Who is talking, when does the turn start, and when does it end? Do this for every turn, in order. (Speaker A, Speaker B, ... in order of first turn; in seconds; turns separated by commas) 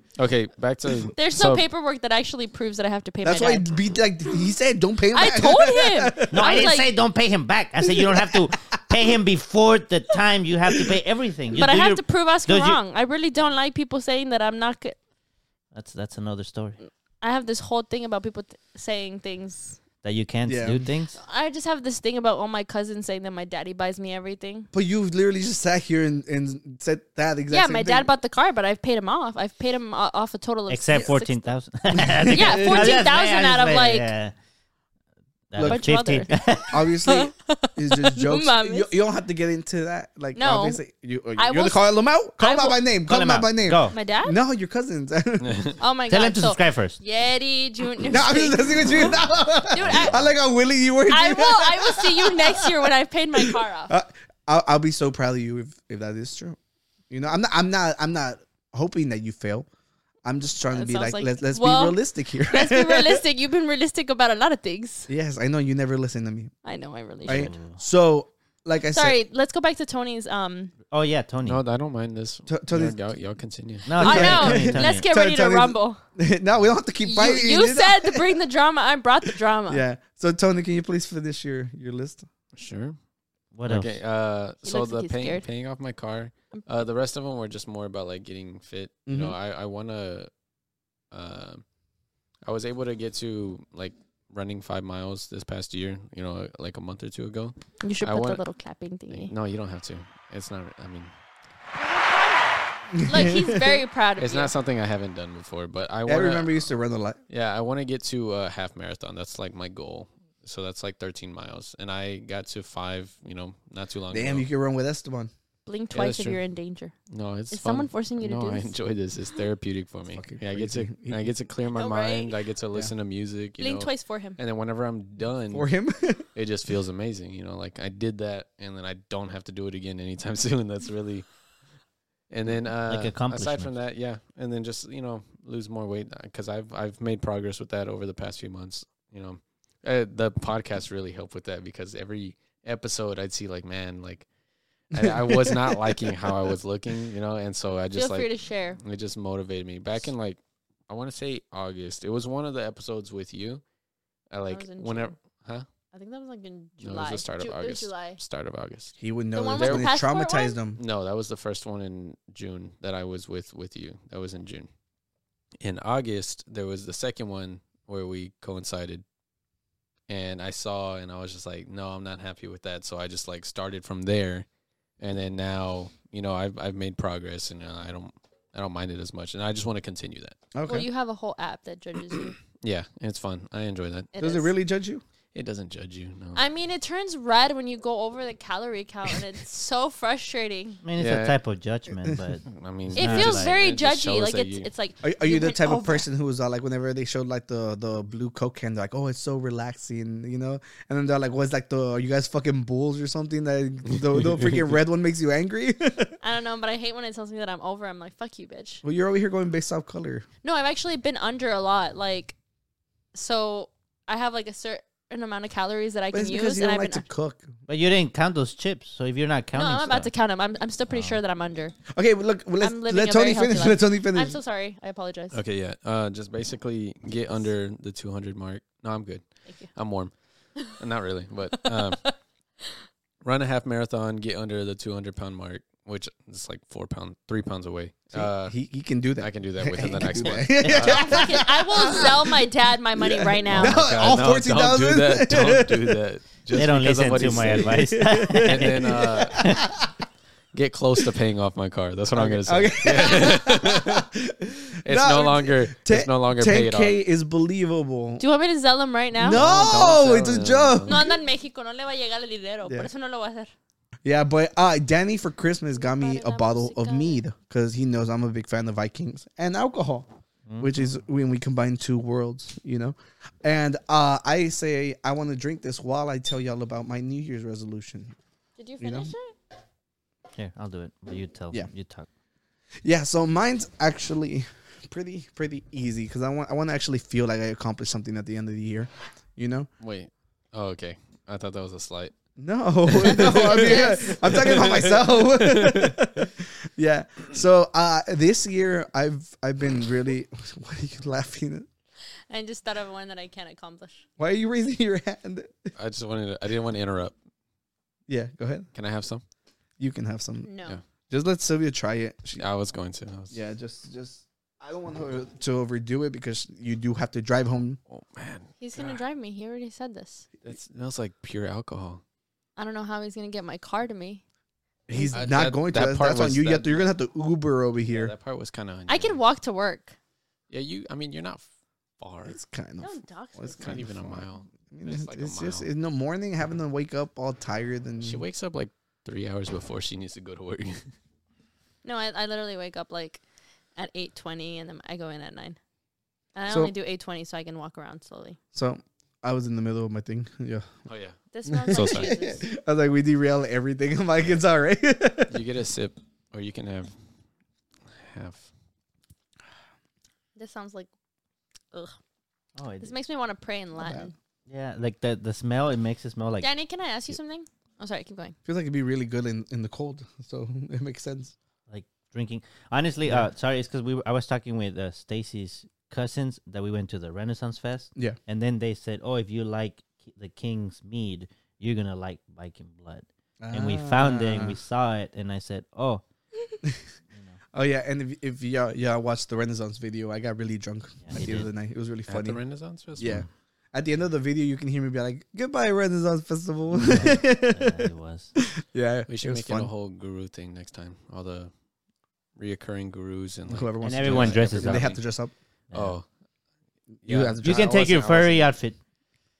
Speaker A: 0.1-1.6, Speaker B: 1.1-3.7, Speaker C: 3.2-6.6, Speaker B: 5.1-6.9, Speaker D: 6.3-12.8, Speaker C: 7.8-8.5, Speaker B: 11.5-15.0, Speaker D: 15.7-16.8, Speaker B: 16.8-19.8, Speaker D: 20.0-21.1, Speaker C: 20.4-20.8, Speaker B: 21.1-24.7, Speaker C: 24.7-28.1, Speaker B: 27.5-31.4, Speaker D: 30.7-34.3, Speaker C: 31.9-33.1, Speaker B: 32.3-34.1, Speaker D: 35.5-36.8, Speaker C: 35.6-36.0, Speaker B: 35.6-36.4, Speaker C: 36.7-45.6, Speaker B: 37.0-39.0, Speaker B: 40.4-40.8, Speaker B: 41.4-42.8, Speaker D: 43.1-44.0, Speaker B: 43.9-44.4, Speaker A: 45.4-45.7, Speaker B: 45.8-49.1, Speaker D: 46.1-47.0, Speaker C: 48.0-52.7, Speaker B: 49.7-50.3, Speaker B: 51.1-53.9, Speaker C: 53.4-56.6, Speaker C: 57.1-59.7, Speaker C: 60.2-63.2, Speaker B: 60.7-65.1, Speaker C: 65.1-66.5, Speaker B: 66.6-67.5, Speaker C: 67.2-69.2, Speaker D: 67.3-67.8, Speaker B: 68.9-70.7, Speaker D: 70.9-71.6, Speaker A: 71.4-74.2, Speaker C: 72.5-73.0, Speaker D: 73.8-75.0, Speaker B: 74.0-76.0, Speaker C: 74.0-78.3, Speaker B: 77.0-79.8, Speaker C: 79.7-82.3, Speaker A: 82.5-83.0, Speaker D: 83.5-84.0, Speaker A: 83.6-90.3, Speaker B: 84.6-85.5, Speaker C: 89.1-89.3, Speaker A: 91.1-91.6, Speaker A: 92.4-98.4, Speaker B: 97.8-99.3, Speaker A: 99.1-101.1, Speaker B: 101.8-104.5, Speaker C: 102.9-103.8, Speaker A: 104.2-106.7, Speaker C: 106.0-107.2, Speaker A: 107.3-114.5, Speaker C: 114.1-115.3, Speaker B: 115.7-116.9, Speaker A: 115.9-116.4, Speaker A: 117.1-125.7, Speaker B: 117.5-118.7, Speaker C: 120.1-121.3, Speaker B: 121.7-122.3, Speaker B: 123.6-124.4, Speaker C: 125.5-126.3, Speaker A: 126.3-131.3, Speaker A: 132.3-144.3, Speaker D: 132.9-133.7, Speaker A: 144.9-153.6, Speaker C: 144.9-146.1, Speaker B: 147.9-148.8, Speaker A: 154.3-155.7, Speaker B: 154.5-155.1, Speaker B: 155.9-158.2, Speaker A: 156.8-158.9, Speaker C: 159.0-160.8, Speaker B: 159.3-160.6, Speaker A: 159.6-159.9, Speaker A: 160.8-164.7, Speaker A: 165.6-169.0, Speaker A: 170.1-174.4, Speaker A: 175.0-180.4, Speaker C: 180.5-180.9, Speaker B: 180.6-182.4, Speaker A: 182.6-184.1, Speaker B: 184.1-184.5, Speaker C: 184.2-185.0, Speaker A: 185.3-186.4, Speaker B: 186.3-190.8, Speaker D: 190.8-193.6, Speaker A: 191.0-191.4, Speaker A: 192.5-194.7, Speaker B: 192.9-196.1, Speaker C: 195.0-206.2, Speaker B: 206.2-208.8, Speaker C: 208.8-210.2, Speaker B: 210.4-212.3, Speaker B: 213.1-217.1, Speaker C: 216.1-217.5, Speaker D: 217.7-220.1, Speaker B: 219.5-221.7, Speaker D: 220.9-221.2, Speaker C: 221.9-224.4, Speaker B: 222.6-225.4, Speaker A: 225.3-232.1, Speaker B: 231.7-232.1, Speaker A: 233.2-238.6, Speaker C: 238.1-242.3, Speaker A: 239.2-241.3, Speaker B: 240.8-243.9, Speaker C: 243.0-246.0, Speaker A: 243.5-249.5, Speaker D: 246.5-249.6, Speaker C: 247.2-249.9, Speaker A: 250.5-254.1, Speaker C: 252.1-258.2, Speaker A: 254.8-257.0, Speaker B: 258.2-259.4, Speaker C: 259.1-261.1, Speaker A: 259.3-261.0, Speaker B: 260.9-263.5, Speaker C: 264.0-270.1, Speaker B: 265.8-267.2, Speaker C: 270.6-278.1, Speaker B: 278.6-279.3, Speaker C: 278.8-279.1, Speaker D: 280.3-282.1, Speaker C: 282.8-289.7, Speaker A: 289.8-292.1, Speaker C: 292.4-301.6, Speaker A: 292.9-296.3, Speaker B: 293.0-294.3, Speaker B: 302.3-304.1, Speaker C: 304.2-305.7, Speaker A: 305.8-307.1, Speaker C: 308.1-308.7, Speaker A: 308.7-309.2, Speaker C: 309.8-310.5, Speaker B: 310.4-310.8, Speaker C: 311.1-312.4, Speaker A: 312.4-313.4, Speaker C: 313.3-317.8, Speaker A: 317.9-319.0, Speaker B: 318.6-320.3, Speaker A: 320.4-322.0, Speaker B: 322.6-324.2, Speaker C: 324.9-328.1, Speaker B: 324.9-325.2, Speaker A: 325.1-326.8, Speaker A: 327.9-329.2, Speaker B: 328.9-329.9, Speaker A: 330.5-331.5, Speaker A: 332.0-332.4, Speaker C: 332.3-338.2, Speaker B: 332.8-333.8, Speaker A: 333.6-335.7, Speaker A: 338.0-340.8, Speaker B: 341.8-343.2, Speaker B: 343.8-345.6, Speaker B: 346.3-348.4, Speaker C: 348.5-350.7, Speaker A: 350.9-352.1, Speaker B: 351.3-352.4, Speaker C: 351.6-355.4, Speaker A: 355.3-356.9, Speaker A: 357.9-358.5, Speaker B: 360.4-360.9, Speaker D: 362.6-362.9, Speaker B: 362.8-364.1, Speaker C: 363.8-364.1, Speaker D: 364.5-366.5, Speaker B: 366.4-368.3, Speaker C: 368.4-371.3, Speaker D: 371.7-386.0, Speaker C: 383.4-384.6, Speaker C: 387.5-392.4, Speaker D: 391.0-391.5, Speaker A: 392.1-393.2, Speaker C: 393.0-399.7, Speaker D: 396.7-398.3, Speaker A: 399.1-401.5, Speaker A: 402.4-405.0, Speaker C: 403.5-405.3, Speaker D: 403.8-404.9, Speaker A: 405.7-406.0, Speaker C: 407.0-407.8, Speaker A: 407.0-408.5, Speaker D: 407.4-408.8